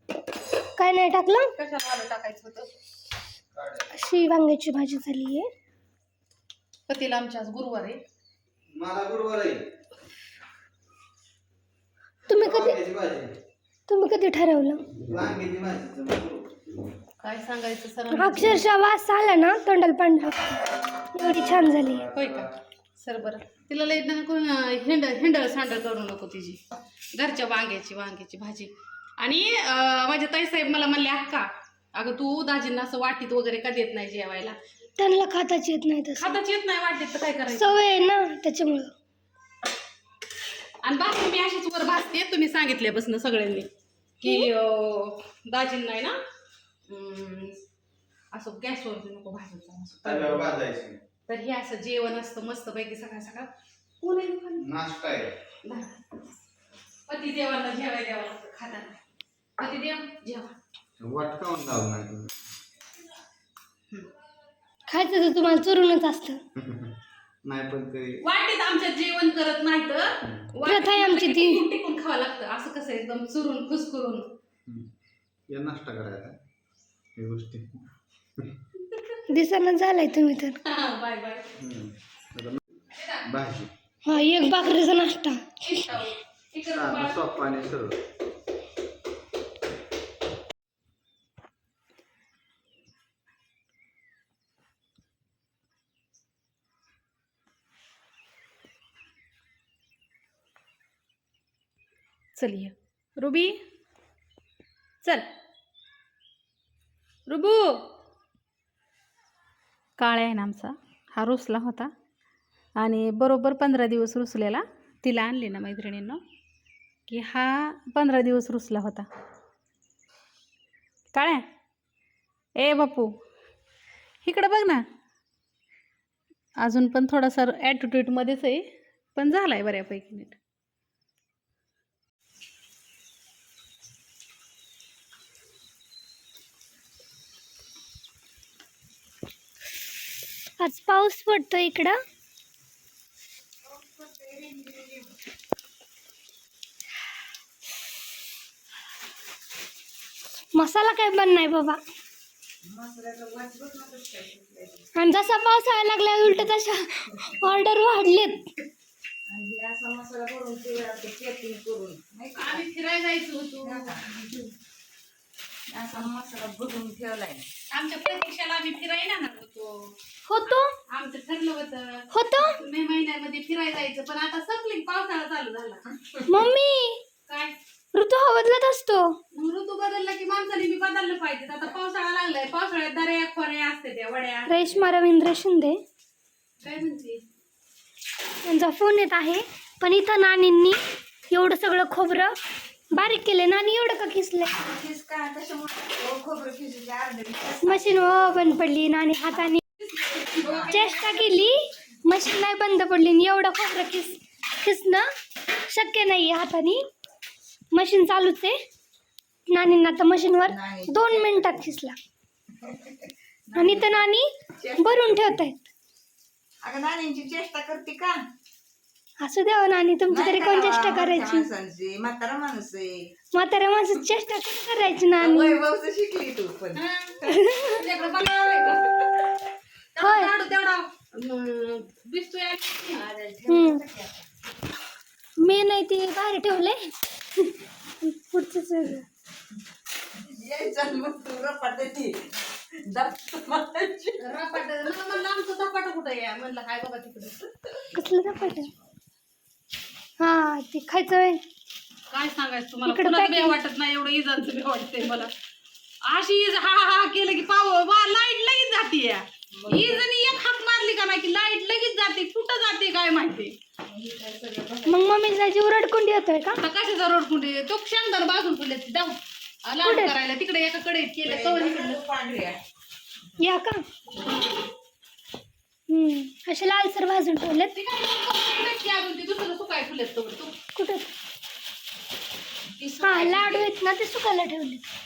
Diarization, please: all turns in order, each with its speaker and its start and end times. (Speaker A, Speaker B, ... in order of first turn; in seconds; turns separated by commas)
Speaker A: 0.8-1.5, Speaker B: 1.5-2.7, Speaker C: 3.5-3.9, Speaker A: 3.9-5.5, Speaker B: 6.9-8.0, Speaker C: 8.7-9.7, Speaker A: 12.3-12.8, Speaker C: 12.3-13.4, Speaker A: 13.9-14.9, Speaker C: 15.0-16.5, Speaker B: 17.2-18.6, Speaker A: 18.1-22.1, Speaker C: 22.0-22.5, Speaker B: 22.1-26.6, Speaker B: 27.1-34.6, Speaker A: 35.0-36.4, Speaker B: 36.2-37.8, Speaker A: 37.5-38.9, Speaker B: 40.8-43.7, Speaker B: 44.2-46.2, Speaker A: 44.2-44.5, Speaker B: 46.9-47.6, Speaker B: 48.3-50.5, Speaker C: 50.0-51.0, Speaker B: 51.3-53.5, Speaker B: 54.0-54.7, Speaker C: 54.6-55.4, Speaker B: 55.6-55.9, Speaker B: 57.1-59.0, Speaker B: 59.6-60.5, Speaker C: 61.0-62.3, Speaker A: 64.9-66.4, Speaker C: 66.6-68.2, Speaker B: 68.2-74.3, Speaker A: 70.7-71.6, Speaker C: 75.5-76.4, Speaker C: 77.2-77.8, Speaker A: 79.3-80.6, Speaker B: 80.6-81.5, Speaker C: 81.6-82.6, Speaker B: 83.0-83.2, Speaker C: 83.2-83.7, Speaker A: 84.1-85.6, Speaker B: 85.6-87.2, Speaker C: 86.7-88.0, Speaker B: 102.4-103.6, Speaker B: 107.3-107.8, Speaker B: 110.0-111.9, Speaker B: 112.8-116.2, Speaker B: 117.1-119.1, Speaker B: 121.1-121.4, Speaker B: 122.6-123.1, Speaker B: 124.2-124.8, Speaker B: 126.6-130.4, Speaker A: 140.6-142.0, Speaker D: 143.7-145.1, Speaker A: 150.6-151.8, Speaker D: 152.6-154.8, Speaker A: 155.0-158.5, Speaker D: 159.3-162.7, Speaker B: 162.3-164.1, Speaker D: 163.6-164.5, Speaker D: 165.7-167.4, Speaker B: 167.7-169.9, Speaker A: 170.3-170.7, Speaker B: 170.4-175.8, Speaker A: 172.1-172.6, Speaker D: 175.9-176.4, Speaker A: 176.3-177.0, Speaker B: 177.3-177.6, Speaker A: 177.9-179.2, Speaker B: 179.3-184.9, Speaker A: 184.5-185.8, Speaker B: 186.6-187.2, Speaker A: 188.4-190.8, Speaker A: 191.3-192.3, Speaker A: 192.9-194.5, Speaker D: 194.5-198.4, Speaker A: 197.6-199.6, Speaker B: 200.0-200.9, Speaker D: 200.4-201.4, Speaker A: 200.7-205.1, Speaker A: 205.7-206.8, Speaker A: 207.7-208.6, Speaker A: 209.5-212.0, Speaker D: 210.5-211.7, Speaker D: 212.6-214.0, Speaker A: 213.6-215.6, Speaker D: 214.6-215.4, Speaker D: 216.6-218.2, Speaker A: 219.2-221.5, Speaker D: 220.1-223.1, Speaker A: 223.3-225.6, Speaker D: 225.2-227.6, Speaker B: 226.8-227.2, Speaker A: 227.3-227.8, Speaker B: 227.7-228.9, Speaker D: 228.2-229.1, Speaker B: 230.0-233.0, Speaker A: 230.0-230.3, Speaker D: 232.9-234.2, Speaker A: 233.5-233.8, Speaker A: 235.4-239.1, Speaker D: 240.3-242.3, Speaker D: 242.8-244.2, Speaker B: 244.2-247.4, Speaker A: 247.9-248.7, Speaker A: 250.2-251.4, Speaker B: 252.1-255.3, Speaker A: 252.8-253.6, Speaker B: 256.1-263.6, Speaker D: 259.6-260.1, Speaker D: 263.9-265.3, Speaker A: 264.9-266.6, Speaker B: 266.6-272.0, Speaker A: 269.8-270.1, Speaker D: 271.2-272.6, Speaker A: 273.4-273.9, Speaker A: 275.9-277.7, Speaker B: 277.7-280.6, Speaker A: 280.8-281.1, Speaker B: 282.8-283.6, Speaker D: 282.9-283.6, Speaker A: 283.0-284.8